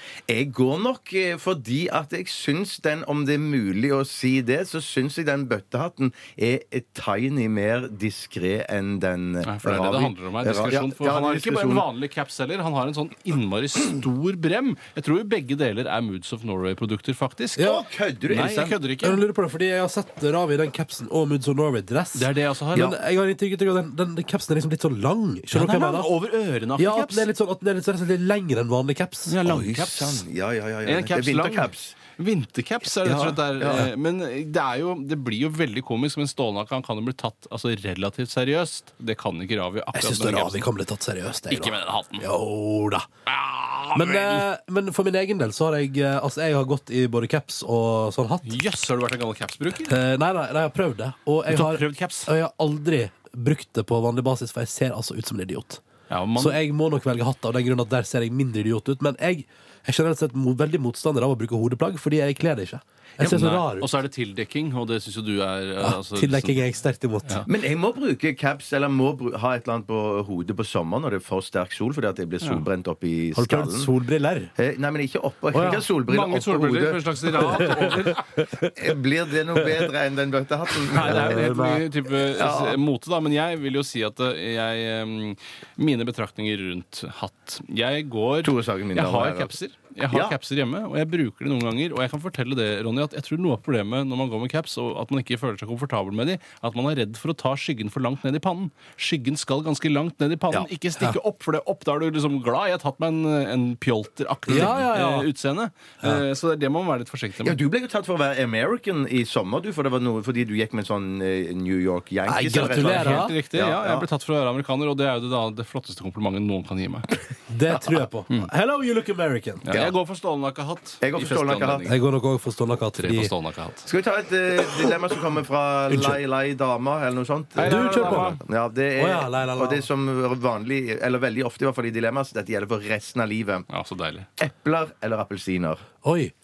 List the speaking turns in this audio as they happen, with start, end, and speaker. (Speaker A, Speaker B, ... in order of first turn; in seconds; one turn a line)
Speaker A: 0.3-11.9
Speaker B: 9.4-19.2
Speaker C: 17.6-17.8
Speaker A: 17.6-18.8
Speaker C: 19.0-26.1
Speaker B: 22.1-22.9
Speaker B: 25.5-27.2
Speaker C: 26.8-29.3
Speaker B: 29.3-30.2
Speaker A: 29.4-32.0
Speaker B: 30.8-40.7
Speaker A: 33.0-33.9
Speaker C: 39.9-43.1
Speaker B: 41.5-42.2
Speaker B: 43.3-44.5
Speaker C: 43.9-48.5
Speaker B: 48.4-50.0
Speaker C: 49.9-55.8
Speaker B: 51.5-52.3
Speaker B: 56.1-56.6
Speaker C: 56.4-63.9
Speaker B: 63.2-66.6
Speaker C: 65.8-67.5
Speaker A: 67.5-73.9
Speaker C: 73.3-74.5
Speaker A: 74.5-77.8
Speaker C: 75.5-75.8
Speaker B: 76.1-78.2
Speaker C: 77.4-78.8
Speaker A: 78.7-81.5
Speaker B: 80.9-107.6
Speaker C: 80.9-81.9
Speaker A: 82.3-82.8
Speaker A: 88.4-89.5
Speaker A: 90.1-90.4
Speaker C: 104.5-105.3
Speaker A: 107.4-114.0
Speaker C: 112.3-113.3
Speaker B: 112.5-117.1
Speaker C: 117.5-119.6
Speaker B: 119.6-122.0
Speaker A: 119.7-119.9
Speaker A: 121.0-121.9
Speaker C: 121.8-123.3
Speaker B: 122.9-123.8
Speaker A: 123.8-133.7
Speaker C: 125.9-126.2
Speaker B: 127.5-128.4
Speaker C: 127.6-128.4
Speaker C: 129.0-129.8
Speaker B: 133.7-134.3
Speaker A: 134.4-135.8
Speaker C: 136.0-136.3